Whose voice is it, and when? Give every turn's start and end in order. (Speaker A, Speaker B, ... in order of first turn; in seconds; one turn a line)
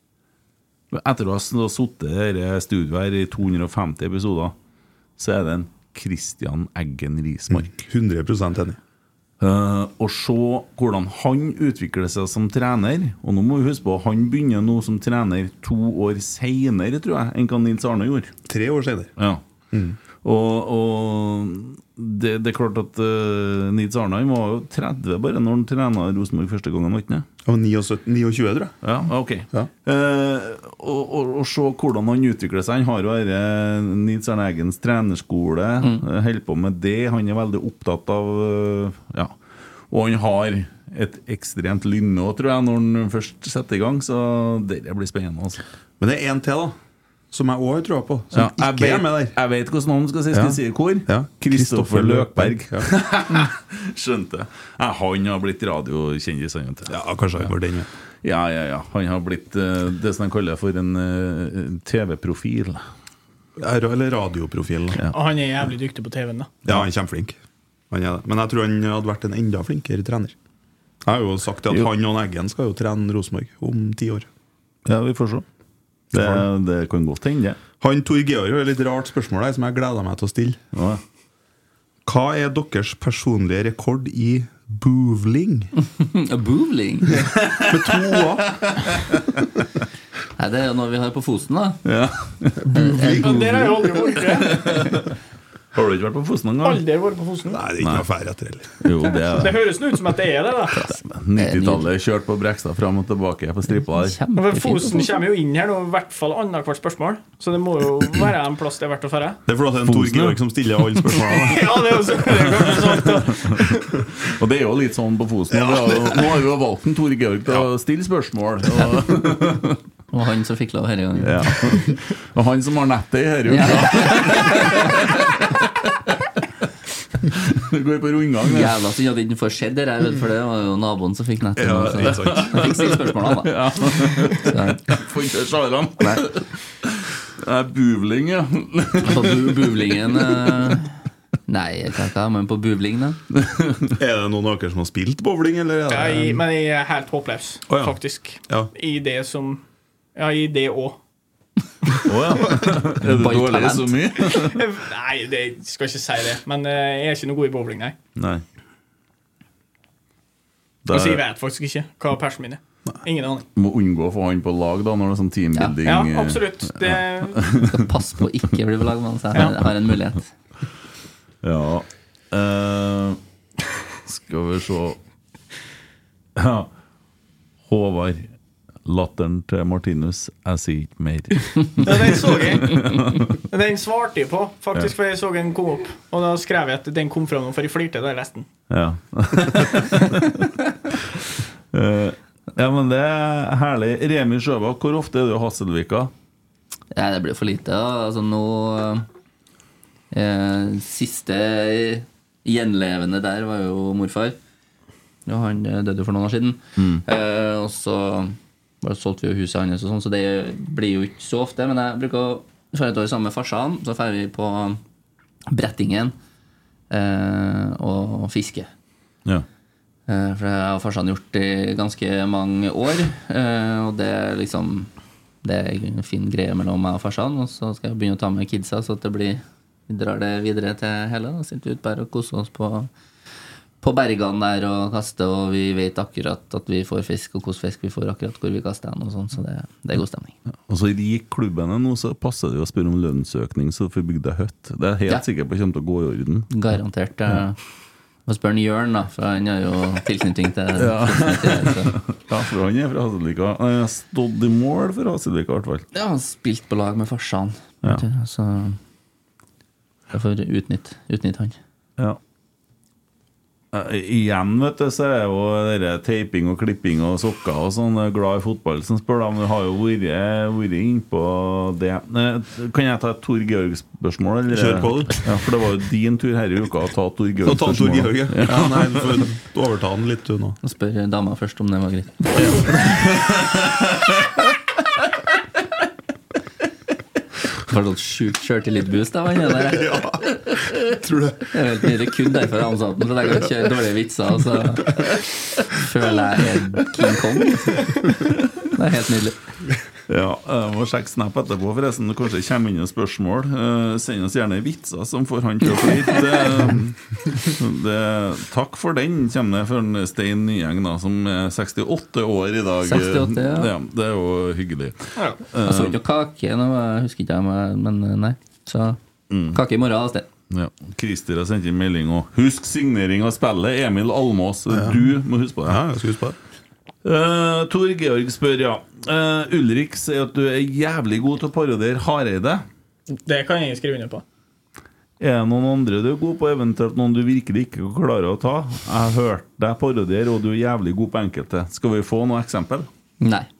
Speaker A: 0.9-4.5
Speaker A: 5.2-7.7
Speaker B: 7.5-8.8
Speaker A: 9.4-18.3
Speaker B: 18.5-19.1
Speaker B: 19.7-20.0
Speaker A: 20.2-27.2
Speaker B: 27.4-28.8
Speaker A: 28.8-39.4
Speaker A: 39.9-45.6
Speaker B: 46.0-46.8
Speaker B: 47.3-49.3
Speaker A: 48.3-56.9
Speaker B: 50.3-52.9
Speaker B: 56.9-57.9
Speaker A: 58.2-62.8
Speaker B: 63.6-65.0
Speaker C: 65.1-66.5
Speaker B: 66.7-67.4
Speaker B: 67.9-70.3
Speaker B: 71.0-74.3
Speaker A: 74.8-75.4
Speaker A: 76.1-77.6
Speaker B: 76.1-76.4
Speaker B: 77.8-80.6
Speaker A: 80.7-81.0
Speaker B: 82.0-85.7
Speaker D: 85.8-87.2
Speaker A: 87.3-89.4
Speaker B: 87.6-88.6
Speaker D: 90.4-91.8
Speaker A: 91.8-92.7
Speaker B: 92.7-93.7
Speaker D: 92.7-93.5
Speaker C: 93.0-94.8
Speaker A: 94.3-95.1
Speaker A: 95.7-96.8
Speaker C: 96.6-97.7
Speaker B: 97.5-98.8
Speaker A: 97.8-98.0
Speaker A: 98.8-99.7
Speaker C: 99.2-100.8
Speaker D: 100.7-101.9
Speaker A: 100.9-104.2
Speaker D: 104.0-105.2
Speaker C: 104.3-109.4
Speaker B: 109.5-112.2
Speaker A: 109.8-111.1
Speaker C: 111.3-113.9
Speaker A: 112.5-119.8
Speaker D: 120.1-121.7
Speaker A: 121.2-126.1
Speaker D: 123.5-125.1
Speaker A: 127.2-128.8
Speaker D: 128.4-133.6
Speaker A: 131.6-140.7
Speaker B: 131.9-132.6
Speaker D: 134.3-134.8
Speaker D: 139.0-140.9
Speaker D: 141.5-143.2
Speaker A: 143.4-143.9
Speaker B: 144.0-146.4
Speaker C: 145.9-149.6
Speaker B: 147.7-148.7
Speaker C: 150.2-151.0
Speaker A: 152.0-154.6
Speaker D: 153.0-154.0
Speaker C: 154.4-158.0
Speaker A: 158.2-158.4
Speaker A: 160.8-161.2
Speaker C: 160.9-163.4
Speaker A: 163.6-167.8
Speaker C: 165.8-167.4
Speaker D: 167.6-170.3
Speaker A: 171.4-173.2
Speaker A: 174.1-175.0
Speaker A: 176.3-176.7
Speaker A: 177.7-178.3
Speaker A: 178.8-183.4
Speaker C: 181.8-182.8
Speaker C: 183.4-188.5
Speaker A: 188.7-190.5
Speaker A: 191.7-196.1
Speaker D: 196.9-199.1
Speaker D: 200.1-204.4
Speaker D: 205.2-214.8
Speaker A: 206.8-207.0
Speaker D: 215.5-216.1
Speaker D: 216.9-218.7
Speaker D: 220.1-224.9
Speaker D: 225.4-232.9
Speaker D: 233.8-240.3
Speaker A: 240.7-246.5
Speaker D: 246.5-247.6
Speaker D: 248.3-252.0
Speaker A: 250.8-255.8
Speaker D: 255.9-258.8
Speaker D: 260.1-261.6
Speaker A: 263.7-279.2
Speaker B: 274.5-275.2
Speaker B: 277.4-280.6
Speaker D: 280.6-282.4
Speaker A: 282.4-284.1
Speaker D: 287.6-290.0
Speaker B: 289.6-291.5
Speaker D: 291.4-295.1
Speaker D: 295.6-299.4
Speaker A: 300.1-316.0
Speaker D: 312.8-313.7
Speaker D: 315.6-319.0
Speaker A: 319.3-319.6
Speaker D: 319.5-320.3
Speaker A: 320.5-325.8
Speaker B: 324.7-325.0
Speaker B: 325.6-326.4
Speaker A: 327.0-332.6
Speaker C: 333.2-334.2
Speaker A: 335.2-342.9
Speaker D: 343.2-343.5